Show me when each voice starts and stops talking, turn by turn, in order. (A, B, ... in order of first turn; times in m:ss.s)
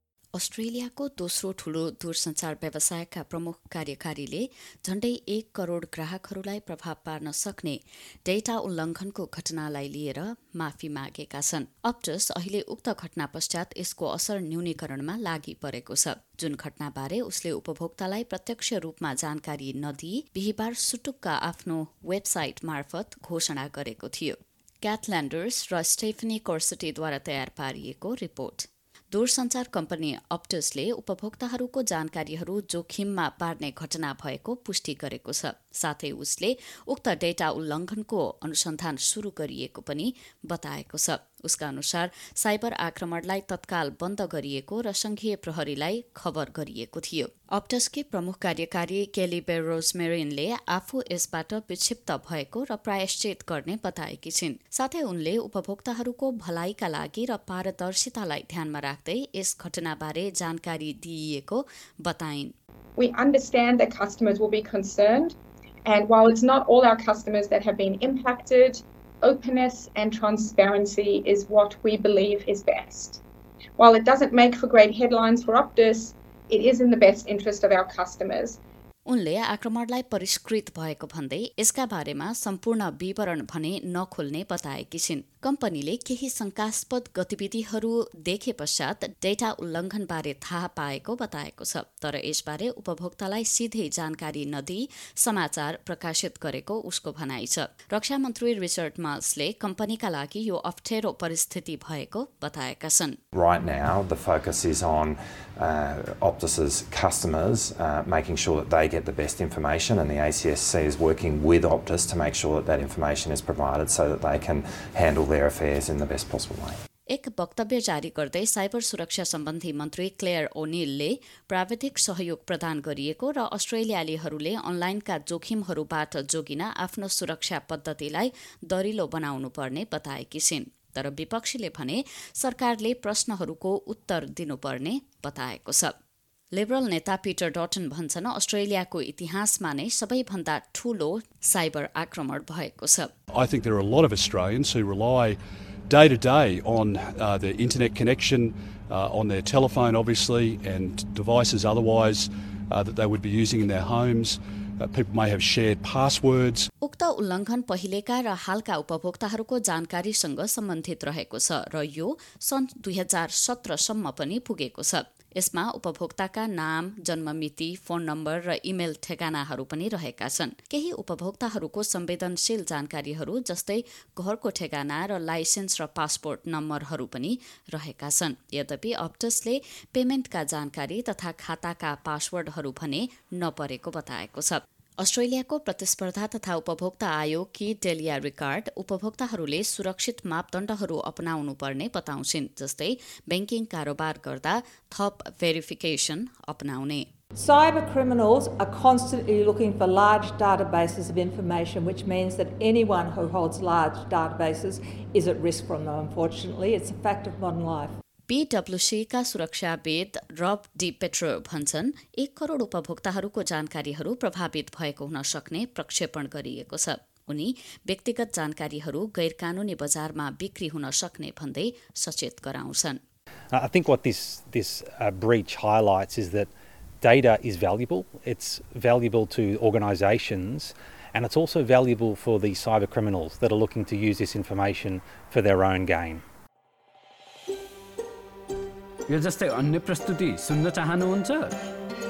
0:00.3-1:02.5 A
1:03.0-1:05.3 B
1:05.9-1:13.2 B
1:13.8-1:18.6 B
1:19.1-1:43.2 A
1:43.3-1:56.8 C
1:57.1-2:15.9 A
2:16.5-2:23.1 A
2:23.3-2:25.4 D
2:25.9-2:36.7 D
2:36.8-3:17.1 A
3:17.4-3:28.0 E
3:28.3-3:43.0 A
3:43.5-3:46.5 F
3:47.0-3:56.2 F
3:59.1-4:01.6 G